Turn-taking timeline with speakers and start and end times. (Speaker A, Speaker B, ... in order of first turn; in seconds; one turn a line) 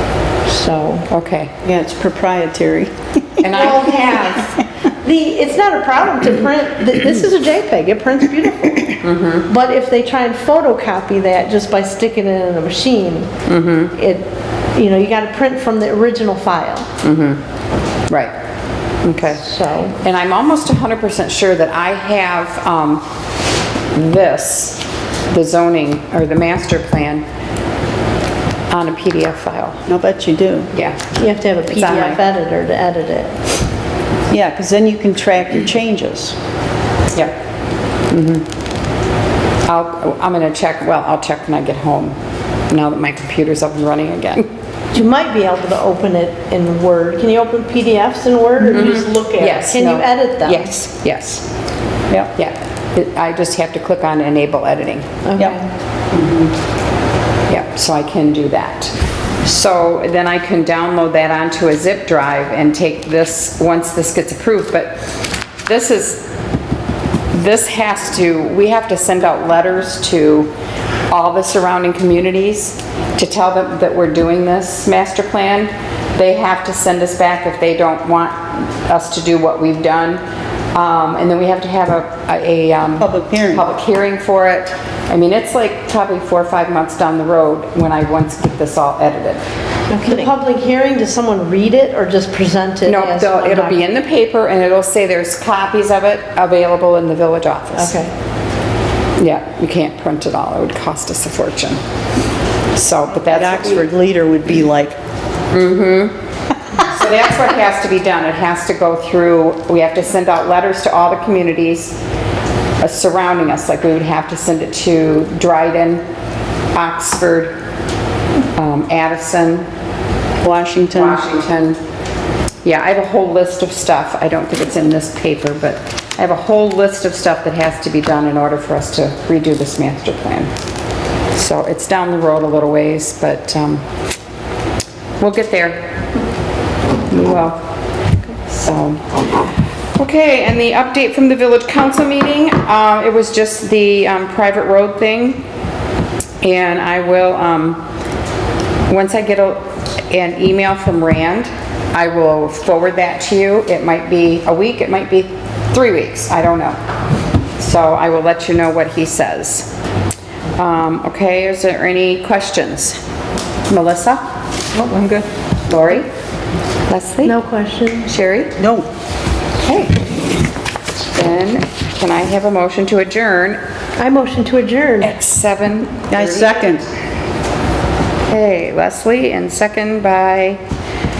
Speaker A: 0.4-1.1
Speaker B: 1.1-1.5
Speaker C: 1.6-4.4
Speaker B: 3.4-4.5
Speaker A: 3.4-4.4
Speaker A: 5.0-13.3
Speaker B: 9.0-9.5
Speaker B: 13.4-13.9
Speaker A: 13.9-16.9
Speaker B: 17.0-17.4
Speaker B: 19.0-23.0
Speaker A: 19.3-19.9
Speaker B: 23.9-27.2
Speaker B: 28.7-29.8
Speaker C: 29.9-30.7
Speaker B: 30.7-31.1
Speaker A: 31.2-33.4
Speaker B: 31.7-32.2
Speaker C: 34.3-36.3
Speaker B: 38.1-38.5
Speaker B: 39.7-42.1
Speaker B: 42.7-44.5
Speaker A: 44.9-50.7
Speaker B: 48.6-51.5
Speaker B: 52.3-55.2
Speaker A: 55.2-55.6
Speaker B: 56.2-56.5
Speaker B: 57.5-66.3
Speaker B: 67.3-70.5
Speaker B: 71.1-80.2
Speaker B: 80.7-89.4
Speaker C: 83.0-83.6
Speaker A: 89.9-93.8
Speaker B: 92.8-98.0
Speaker A: 97.8-98.1
Speaker B: 99.2-101.8
Speaker B: 102.7-103.8
Speaker C: 103.2-105.0
Speaker B: 105.5-106.1
Speaker B: 106.7-112.0
Speaker B: 112.8-116.0
Speaker B: 116.7-117.5
Speaker B: 118.5-119.7
Speaker C: 120.4-121.2
Speaker B: 120.9-121.8
Speaker B: 122.6-130.5
Speaker B: 131.3-133.8
Speaker B: 135.2-135.9
Speaker B: 137.1-137.6
Speaker B: 138.4-139.0
Speaker B: 139.9-145.4
Speaker B: 146.4-147.8
Speaker B: 148.9-156.8
Speaker B: 157.6-159.7
Speaker B: 160.6-163.0
Speaker B: 163.7-166.1
Speaker B: 166.9-167.4
Speaker A: 167.2-168.1
Speaker B: 168.1-168.5
Speaker C: 168.6-168.9
Speaker B: 169.6-170.0
Speaker B: 171.1-173.6
Speaker A: 174.0-175.2
Speaker B: 175.0-176.7
Speaker C: 176.1-176.9
Speaker B: 178.3-180.6